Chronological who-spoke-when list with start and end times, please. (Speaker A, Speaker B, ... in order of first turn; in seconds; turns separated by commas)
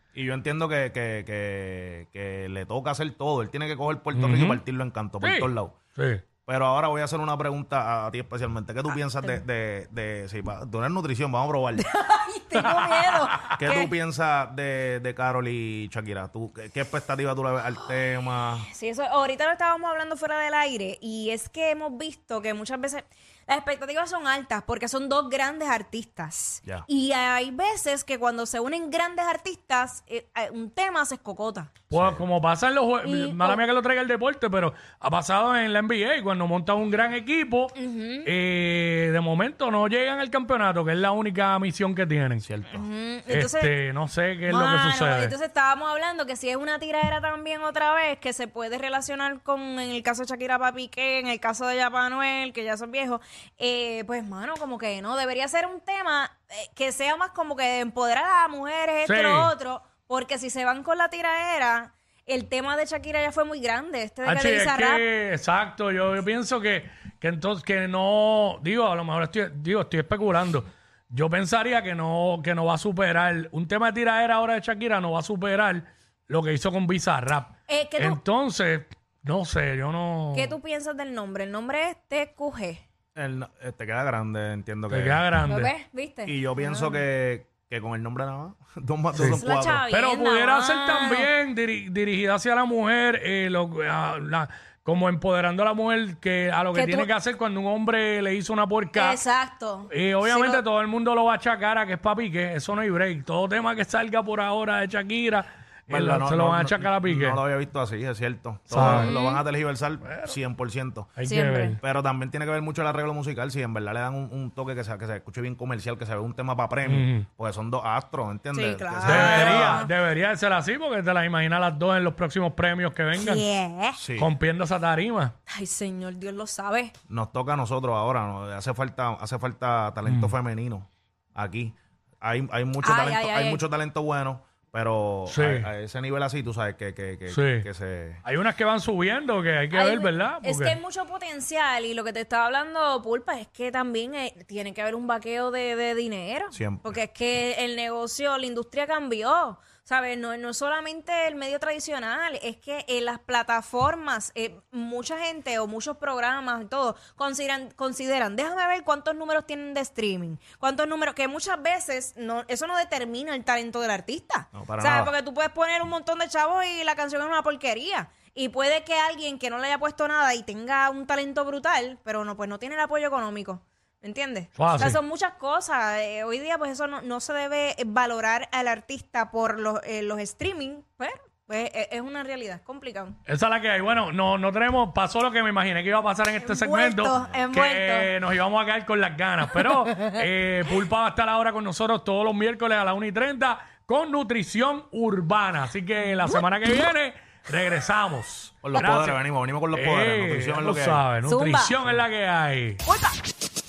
Speaker A: 0.1-5.8, Speaker B: 4.1-4.6, Speaker B: 5.2-6.2, Speaker A: 6.5-11.8, Speaker C: 11.8-13.9, Speaker B: 12.6-13.3, Speaker A: 13.5-18.7, Speaker C: 18.7-31.7, Speaker B: 31.9-42.5, Speaker A: 31.9-32.2, Speaker C: 33.0-33.6, Speaker C: 37.7-38.3, Speaker A: 42.4-42.9, Speaker C: 42.7-43.7, Speaker B: 43.3-45.3, Speaker C: 44.5-65.0, Speaker B: 59.0-59.5, Speaker B: 64.2-80.5, Speaker C: 77.7-78.2, Speaker C: 80.3-82.8, Speaker A: 83.1-85.2, Speaker B: 84.9-85.7, Speaker C: 85.4-87.0, Speaker A: 86.2-89.8, Speaker B: 89.1-89.4, Speaker C: 89.2-91.3, Speaker B: 89.9-99.2, Speaker C: 96.7-97.1, Speaker C: 98.9-100.6, Speaker B: 99.9-107.4, Speaker A: 105.9-111.1, Speaker B: 108.7-109.1, Speaker C: 108.8-109.4, Speaker B: 110.0-110.3, Speaker B: 111.2-111.8, Speaker C: 111.2-111.8, Speaker A: 111.8-119.8, Speaker B: 116.8-117.2, Speaker C: 118.5-119.9, Speaker B: 119.0-123.4, Speaker C: 123.1-124.0, Speaker A: 124.0-124.3, Speaker B: 124.2-125.3, Speaker C: 125.5-126.9, Speaker A: 127.1-138.2, Speaker B: 130.1-130.3, Speaker C: 132.8-133.6, Speaker B: 135.3-135.7, Speaker B: 137.3-137.7, Speaker B: 138.2-140.8, Speaker C: 139.7-183.2, Speaker A: 146.5-147.0, Speaker A: 164.5-165.1, Speaker B: 174.6-175.0, Speaker B: 183.2-199.2, Speaker C: 186.4-188.1, Speaker A: 187.1-187.5, Speaker A: 198.6-201.0, Speaker B: 199.7-202.8, Speaker C: 201.2-201.8, Speaker C: 202.8-203.1